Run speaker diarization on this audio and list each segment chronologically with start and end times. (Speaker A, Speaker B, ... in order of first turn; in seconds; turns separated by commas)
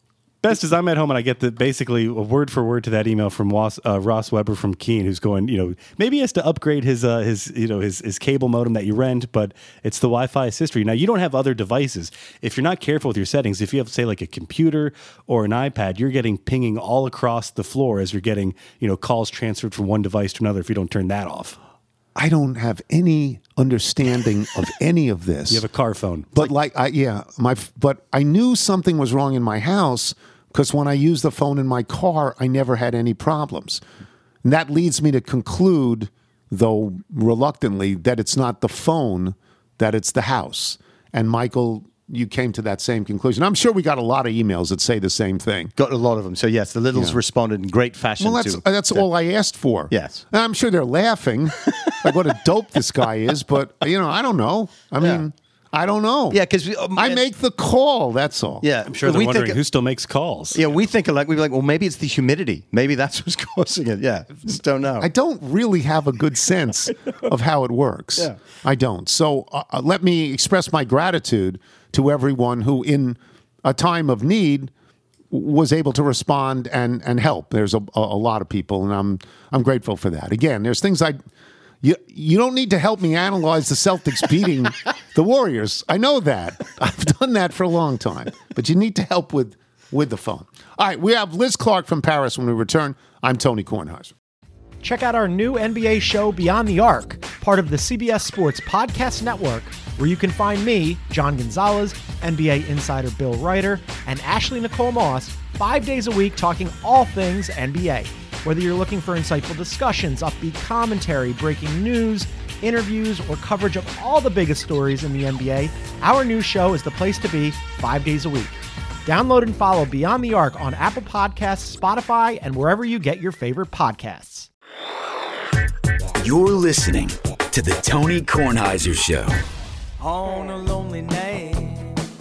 Speaker A: 0.4-21.6, Speaker B: 22.1-25.7, Speaker A: 25.5-26.5, Speaker B: 26.3-33.8, Speaker B: 34.4-45.7, Speaker C: 45.8-49.0, Speaker B: 46.9-47.2, Speaker B: 48.2-56.4, Speaker C: 49.9-50.2, Speaker C: 56.3-57.2, Speaker B: 56.9-58.7, Speaker C: 58.6-59.6, Speaker A: 58.9-60.6, Speaker C: 60.5-65.1, Speaker B: 65.0-74.7, Speaker B: 75.3-81.2, Speaker B: 81.8-94.1, Speaker D: 94.8-124.5, Speaker E: 126.2-129.4, Speaker F: 130.0-132.0